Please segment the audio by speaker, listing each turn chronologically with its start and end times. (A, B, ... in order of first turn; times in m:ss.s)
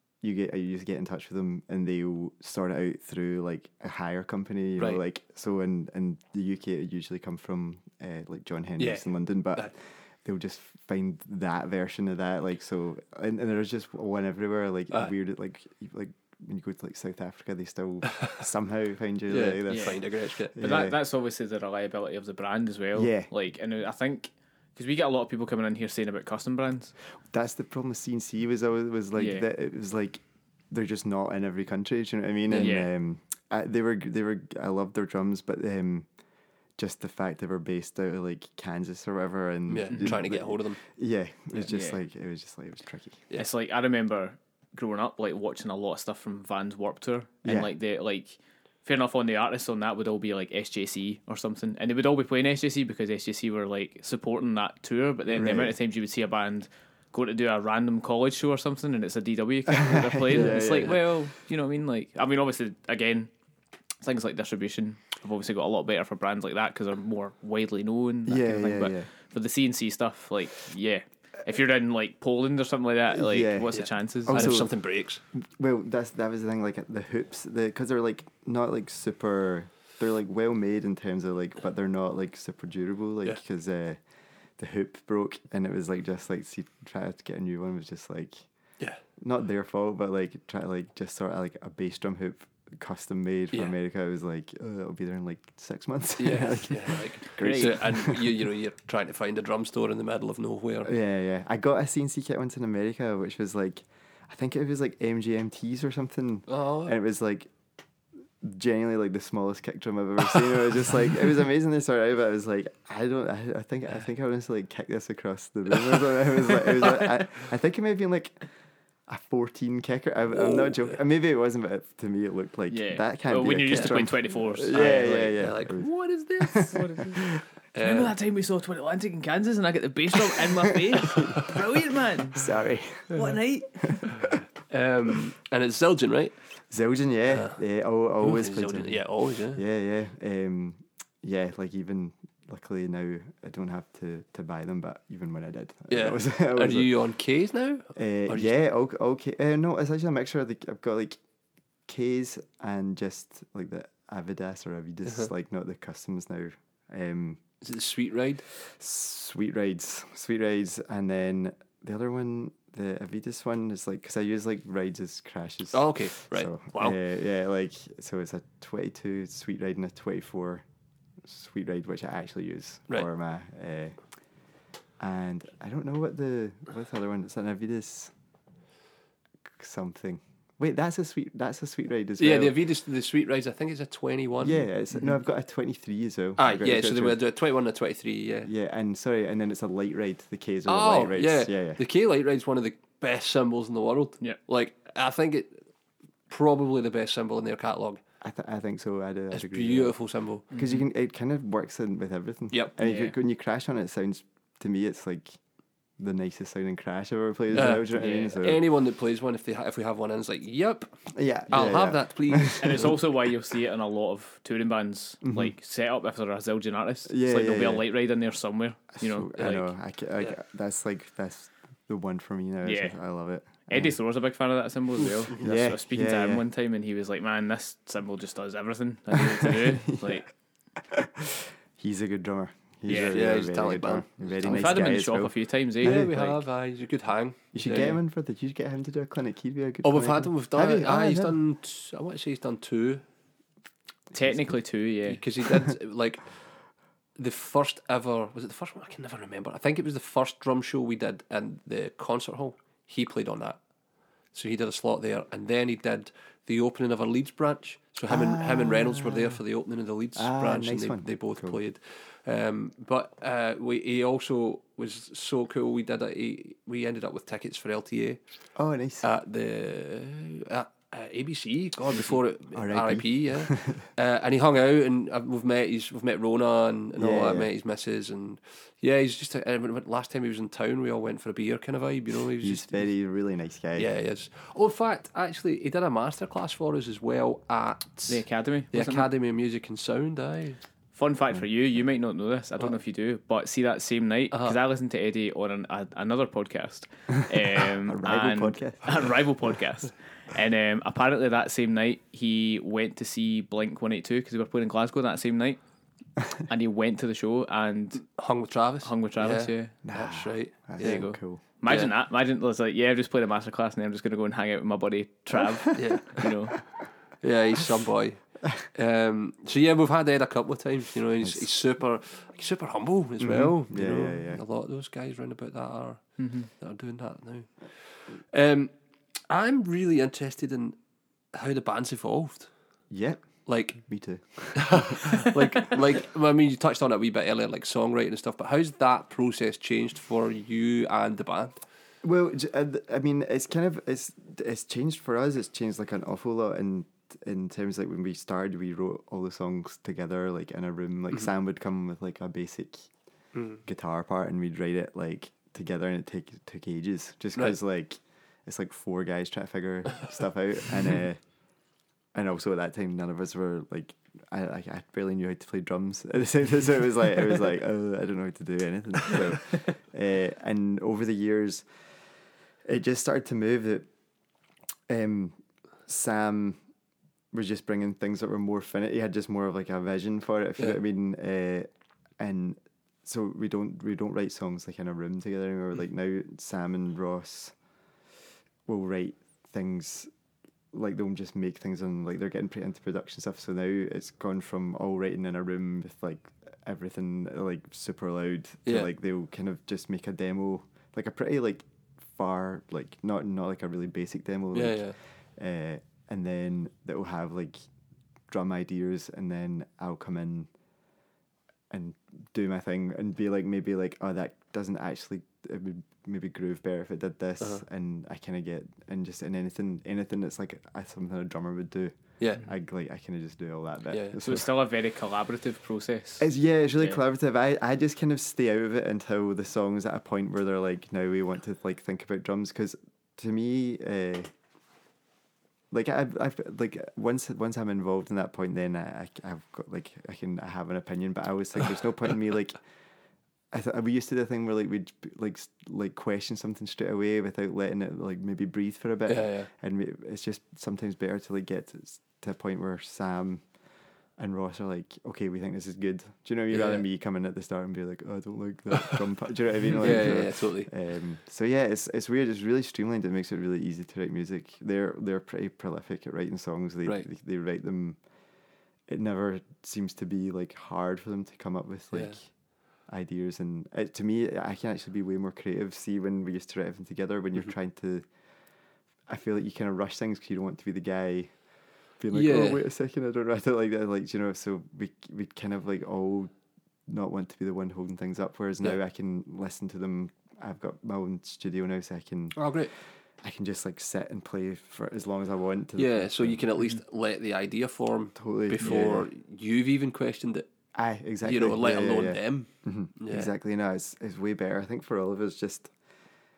0:00.2-0:21.0 A
0:08.8-0:09.7 B
0:19.3-0:20.5 B
0:19.7-0:20.0 C
0:20.5-0:26.9 C
0:22.9-0:23.3 A
0:27.3-0:36.1 A
0:29.2-0:29.4 C
0:32.5-0:32.8 B
0:32.5-0:32.9 C
0:36.8-0:43.2 A
0:39.7-0:40.8 B
0:39.9-0:40.2 C
0:41.6-0:42.0 C
0:43.3-1:03.3 C
0:47.4-0:47.7 A
0:55.3-0:55.8 A
0:59.7-1:01.0 A
1:04.0-1:14.6 C
1:08.2-1:09.1 A
1:13.1-1:14.7 A
1:13.7-1:15.2 B
1:15.3-1:24.0 A
1:24.6-1:28.4 A
1:29.2-1:38.4 A
1:36.2-1:40.9 B
1:37.4-1:37.7 C
1:40.8-1:47.5 A
1:46.5-1:47.0 B
1:48.4-1:58.4 A
1:59.1-2:07.4 A
2:00.4-2:01.0 B
2:02.7-2:05.4 C
2:03.7-2:04.0 B
2:04.7-2:06.8 B
2:06.5-2:07.3 C
2:07.7-2:08.1 B
2:07.8-2:12.4 C
2:12.3-2:13.2 A
2:13.1-2:14.1 C
2:13.8-2:14.3 A
2:14.2-2:16.3 B
2:16.7-2:26.9 A
2:17.3-2:17.6 B
2:18.2-2:19.6 B
2:25.9-2:28.6 B
2:28.0-2:31.2 A
2:31.8-2:37.4 A
2:37.6-2:38.4 B
2:38.6-2:50.6 A
2:45.7-2:47.0 B
2:51.2-2:54.0 A
2:55.0-2:58.1 A
2:59.5-3:02.6 A
3:02.2-3:04.6 B
3:04.4-3:07.2 A
3:06.4-3:08.5 B
3:08.4-3:11.8 A
3:10.6-3:15.6 B
3:16.3-3:18.0 B
3:18.2-3:25.4 A
3:19.3-3:20.5 B
3:20.5-3:20.8 C
3:22.8-3:23.1 C
3:26.0-3:28.6 A
3:27.5-3:30.9 B
3:27.9-3:28.3 C
3:31.1-3:32.9 A
3:31.5-3:33.0 B
3:32.6-3:39.7 C
3:35.2-3:35.5 A
3:37.1-3:37.9 A
3:39.0-3:44.0 A
3:42.6-3:43.0 C
3:43.7-3:50.2 C
3:45.4-3:46.4 A
3:49.1-3:56.1 A
3:52.9-3:53.2 C
3:53.0-3:54.8 B
3:54.4-3:56.4 C
3:55.8-3:58.0 B
3:57.5-4:01.4 A
3:59.8-4:03.0 B
4:04.1-4:05.2 C
4:04.1-4:04.5 A
4:05.1-4:06.4 B
4:07.2-4:13.6 B
4:14.3-4:28.2 B
4:18.1-4:19.4 A
4:20.2-4:21.6 A
4:28.6-4:29.1 A
4:29.0-4:42.9 B
4:32.5-4:33.8 A
4:37.0-4:37.5 A
4:42.4-4:43.9 A
4:43.8-4:50.6 B
4:48.1-4:49.1 C
4:50.9-5:05.6 C
4:54.3-4:54.6 B
4:57.6-4:59.1 A
5:06.4-5:08.0 C
5:08.0-5:11.0 B
5:08.8-5:09.8 C
5:09.8-5:11.4 A
5:10.8-5:16.6 C
5:11.6-5:11.9 B
5:15.7-5:16.3 B
5:17.2-5:28.7 B
5:23.2-5:24.4 A
5:26.2-5:26.5 C
5:29.3-5:30.8 B
5:31.3-5:32.5 B
5:32.9-5:35.3 A
5:33.4-5:33.8 B
5:34.5-5:41.6 B
5:42.0-5:52.9 A
5:53.3-5:53.6 B
5:53.6-6:01.2 A
6:02.1-6:11.7 A
6:12.6-6:13.9 A
6:14.9-6:16.6 A
6:17.3-6:21.7 A
6:22.2-6:27.5 A
6:28.6-6:30.1 A
6:30.7-6:47.6 A
6:44.5-6:45.0 B
6:48.3-6:50.5 A
6:51.7-7:04.5 A
7:03.9-7:04.2 B
7:04.2-7:06.2 C
7:06.2-7:14.3 A
7:15.7-7:22.6 A
7:23.5-7:33.4 A
7:29.1-7:29.5 B
7:34.2-7:48.0 A
7:36.5-7:36.8 B
7:39.7-7:40.7 B
7:48.9-7:52.3 A
7:52.8-7:58.0 A
7:59.1-8:01.3 A
8:02.0-8:06.3 A
8:02.1-8:02.6 B
8:06.9-8:12.5 A
8:12.4-8:12.7 B
8:13.2-8:16.4 A
8:15.8-8:20.5 B
8:18.2-8:19.1 A
8:20.7-8:25.7 A
8:21.2-8:23.3 B